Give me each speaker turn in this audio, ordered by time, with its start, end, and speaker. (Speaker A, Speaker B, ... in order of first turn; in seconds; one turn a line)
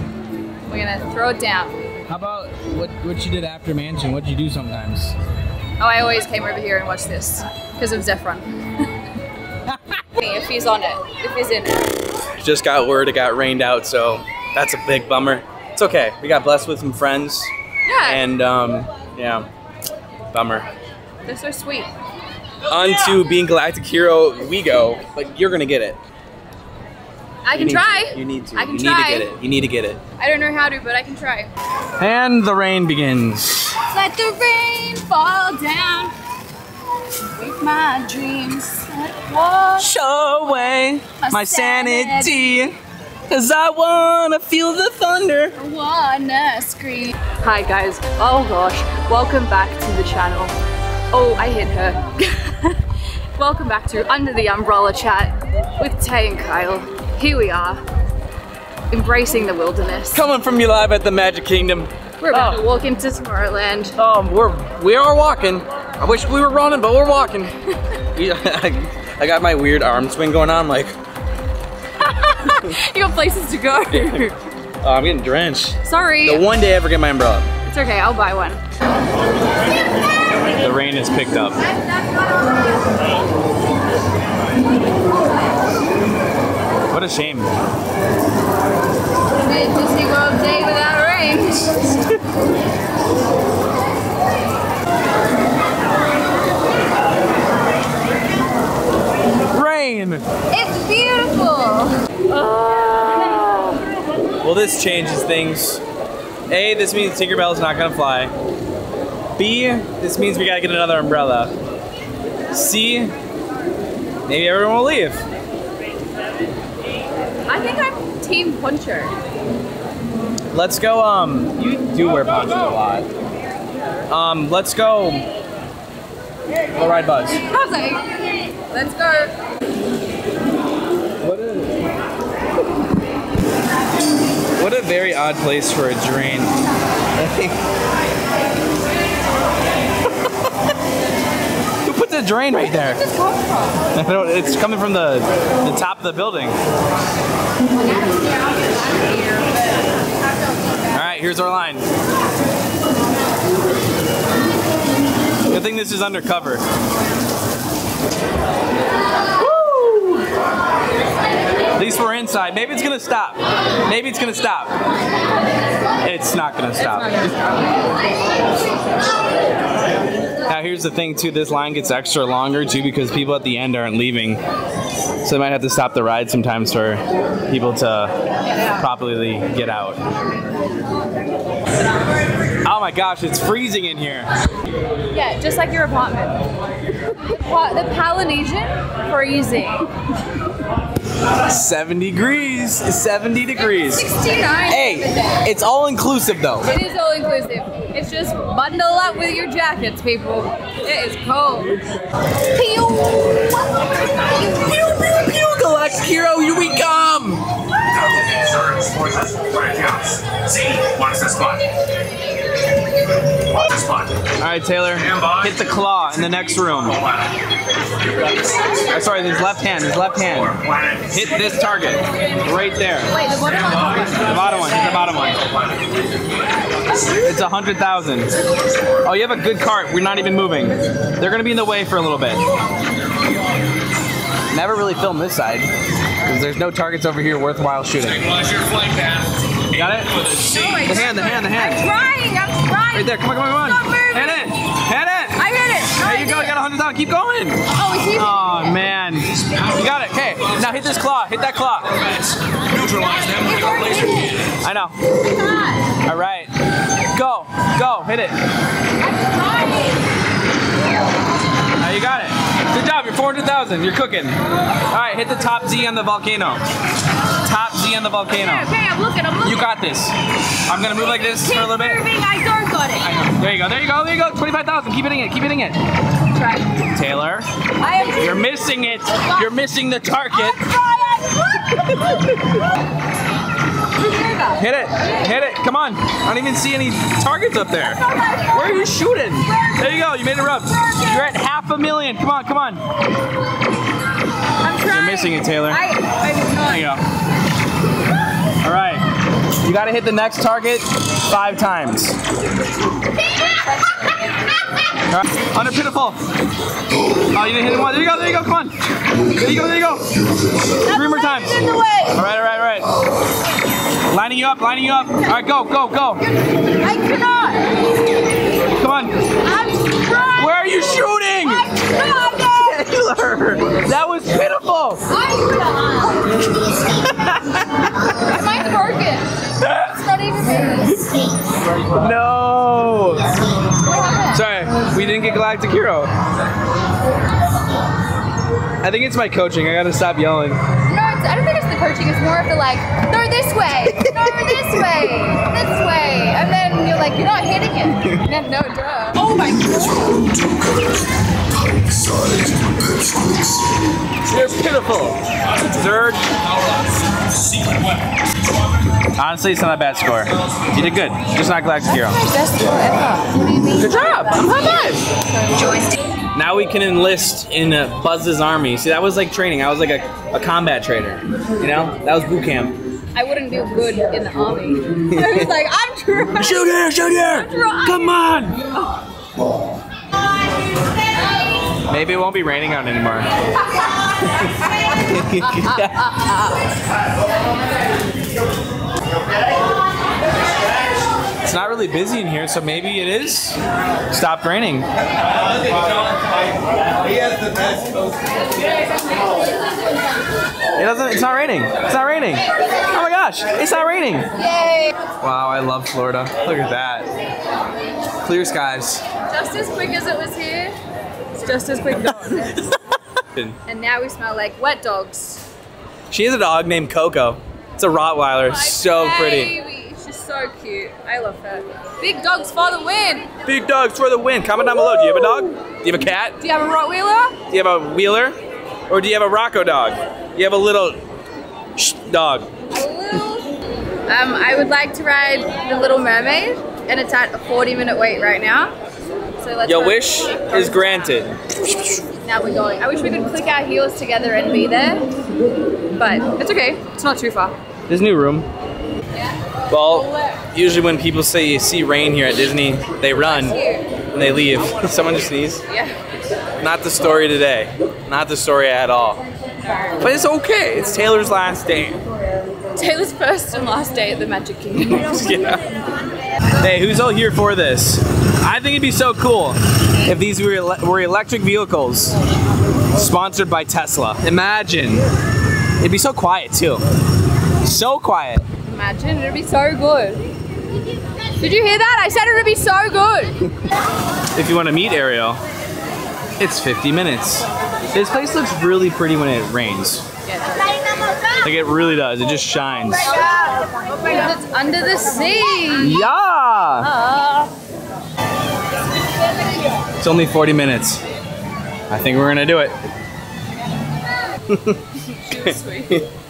Speaker A: 0.7-1.8
Speaker B: 2.1-5.2
Speaker A: 5.8-8.9
Speaker A: 10.1-11.9
Speaker B: 12.4-17.5
Speaker A: 17.9-18.2
Speaker B: 18.0-19.5
Speaker B: 20.3-20.7
Speaker A: 21.2-21.9
Speaker B: 22.7-26.0
Speaker A: 27.4-29.3
Speaker B: 27.6-30.0
Speaker A: 30.2-31.5
Speaker B: 32.0-33.8
Speaker A: 33.9-36.1
Speaker A: 37.4-39.9
Speaker B: 39.8-42.8
Speaker A: 41.2-42.5
Speaker B: 43.3-45.6
Speaker A: 45.6-50.5
Speaker A: 51.1-57.8
Speaker A: 58.9-60.2
Speaker B: 60.1-62.6
Speaker A: 62.2-63.9
Speaker B: 64.0-67.5
Speaker B: 68.1-71.0
Speaker A: 72.0-74.3
Speaker B: 73.9-74.3
Speaker B: 74.8-77.5
Speaker A: 75.8-76.4
Speaker A: 77.6-78.6
Speaker B: 80.6-81.6
Speaker A: 81.8-83.0
Speaker B: 86.9-87.5
Speaker A: 89.4-91.7
Speaker B: 91.7-92.2
Speaker B: 99.5-100.2
Speaker A: 100.5-102.0
Speaker B: 102.3-103.8
Speaker B: 104.4-105.8
Speaker B: 106.5-108.3
Speaker B: 109.4-111.5
Speaker B: 112.5-113.1
Speaker B: 114.3-115.2
Speaker A: 117.5-119.1
Speaker B: 120.5-123.1
Speaker B: 124.1-125.3
Speaker B: 126.7-127.4
Speaker A: 127.5-129.3
Speaker B: 131.2-131.8
Speaker B: 134.6-136.5
Speaker B: 137.2-137.6
Speaker B: 141.8-143.0
Speaker A: 143.0-143.8
Speaker B: 143.9-146.6
Speaker B: 150.9-151.9
Speaker B: 155.5-156.6
Speaker B: 159.4-160.3
Speaker B: 161.8-164.7
Speaker B: 166.0-167.3
Speaker A: 167.0-167.5
Speaker B: 170.5-174.4
Speaker B: 175.2-178.1
Speaker A: 178.5-178.8
Speaker B: 178.7-180.0
Speaker B: 182.7-184.3
Speaker A: 185.1-186.4
Speaker A: 187.3-189.9
Speaker B: 191.4-194.1
Speaker A: 193.7-195.5
Speaker B: 194.7-196.7
Speaker A: 196.6-201.8
Speaker A: 202.5-204.3
Speaker B: 204.5-207.5
Speaker C: 208.2-211.6
Speaker C: 213.5-214.2
Speaker B: 214.4-217.1
Speaker B: 218.9-223.2
Speaker C: 220.6-221.0
Speaker A: 223.1-224.4
Speaker B: 224.1-225.5
Speaker B: 227.2-228.3
Speaker B: 229.0-232.4
Speaker B: 234.5-235.7
Speaker B: 236.2-238.6
Speaker B: 239.7-241.8
Speaker A: 240.4-244.5
Speaker B: 242.9-252.0
Speaker A: 245.3-246.7
Speaker A: 247.7-248.7
Speaker C: 252.7-254.2
Speaker A: 252.7-254.5
Speaker B: 254.5-255.0
Speaker A: 255.3-255.8
Speaker B: 256.1-256.5
Speaker B: 257.1-258.4
Speaker A: 259.0-260.0
Speaker B: 261.8-266.6
Speaker B: 267.4-268.7
Speaker A: 268.3-269.8
Speaker B: 269.4-272.0
Speaker A: 271.4-273.1
Speaker B: 273.0-275.8
Speaker A: 276.4-276.8
Speaker B: 276.9-277.5
Speaker A: 277.8-278.5
Speaker B: 278.2-280.6
Speaker A: 279.2-279.5
Speaker A: 280.4-281.8
Speaker A: 284.0-284.6
Speaker B: 284.6-292.8
Speaker A: 288.0-288.8
Speaker A: 294.6-296.9
Speaker B: 294.9-295.8
Speaker B: 296.6-297.0
Speaker B: 298.6-299.1
Speaker B: 299.6-302.2
Speaker A: 303.4-304.2
Speaker B: 305.1-306.2
Speaker B: 307.3-310.1
Speaker B: 310.8-311.6
Speaker A: 310.9-312.2
Speaker B: 312.1-312.9
Speaker B: 314.1-316.2
Speaker A: 316.2-317.7
Speaker B: 318.7-319.2
Speaker A: 319.4-320.6
Speaker B: 320.4-321.7
Speaker A: 321.7-322.6
Speaker B: 322.4-325.1
Speaker A: 325.1-326.4
Speaker B: 326.9-328.2
Speaker A: 328.2-331.1
Speaker B: 329.6-330.0
Speaker B: 331.9-333.3
Speaker A: 333.8-334.4
Speaker B: 334.3-336.1
Speaker B: 338.8-340.6
Speaker A: 340.9-350.2
Speaker B: 343.9-344.8
Speaker C: 349.5-351.0
Speaker C: 351.6-353.7
Speaker B: 354.3-356.3
Speaker B: 359.2-362.2
Speaker A: 362.0-366.0
Speaker B: 363.8-365.0
Speaker B: 366.3-372.8
Speaker A: 373.1-378.2
Speaker B: 375.1-375.5
Speaker B: 376.4-378.6
Speaker B: 381.9-383.3
Speaker B: 385.0-386.1
Speaker A: 385.4-386.6
Speaker B: 391.4-393.6
Speaker B: 394.1-394.9
Speaker B: 400.8-404.3
Speaker A: 404.4-405.0
Speaker B: 405.2-407.1
Speaker B: 408.2-409.0
Speaker A: 409.3-410.8
Speaker A: 411.3-412.7
Speaker B: 412.0-412.8
Speaker A: 413.7-415.4
Speaker B: 416.1-419.5
Speaker A: 418.4-423.3
Speaker B: 423.4-426.4
Speaker A: 424.9-425.4
Speaker A: 426.4-427.4
Speaker B: 427.5-428.4
Speaker B: 428.9-431.0
Speaker B: 431.8-432.5
Speaker A: 432.7-433.5
Speaker A: 434.1-438.8
Speaker A: 439.4-441.2
Speaker B: 439.6-442.0
Speaker A: 442.2-445.1
Speaker A: 446.0-447.6
Speaker B: 447.9-448.5
Speaker B: 449.7-453.6
Speaker A: 453.2-453.9
Speaker B: 454.1-455.6
Speaker A: 455.7-456.0
Speaker B: 456.6-459.2
Speaker A: 459.7-460.0
Speaker B: 460.0-462.0
Speaker A: 462.8-465.4
Speaker B: 464.8-465.7
Speaker B: 466.6-472.2
Speaker B: 472.9-475.1
Speaker B: 475.8-476.8
Speaker B: 477.6-478.5
Speaker A: 478.6-480.3
Speaker A: 481.4-483.4
Speaker B: 484.4-485.4
Speaker B: 486.4-490.1
Speaker A: 490.3-491.0
Speaker B: 491.4-493.1
Speaker A: 493.1-496.1
Speaker B: 495.8-496.9
Speaker A: 496.8-497.5
Speaker B: 500.0-501.0
Speaker B: 501.9-502.8
Speaker B: 504.5-506.1
Speaker A: 505.1-506.1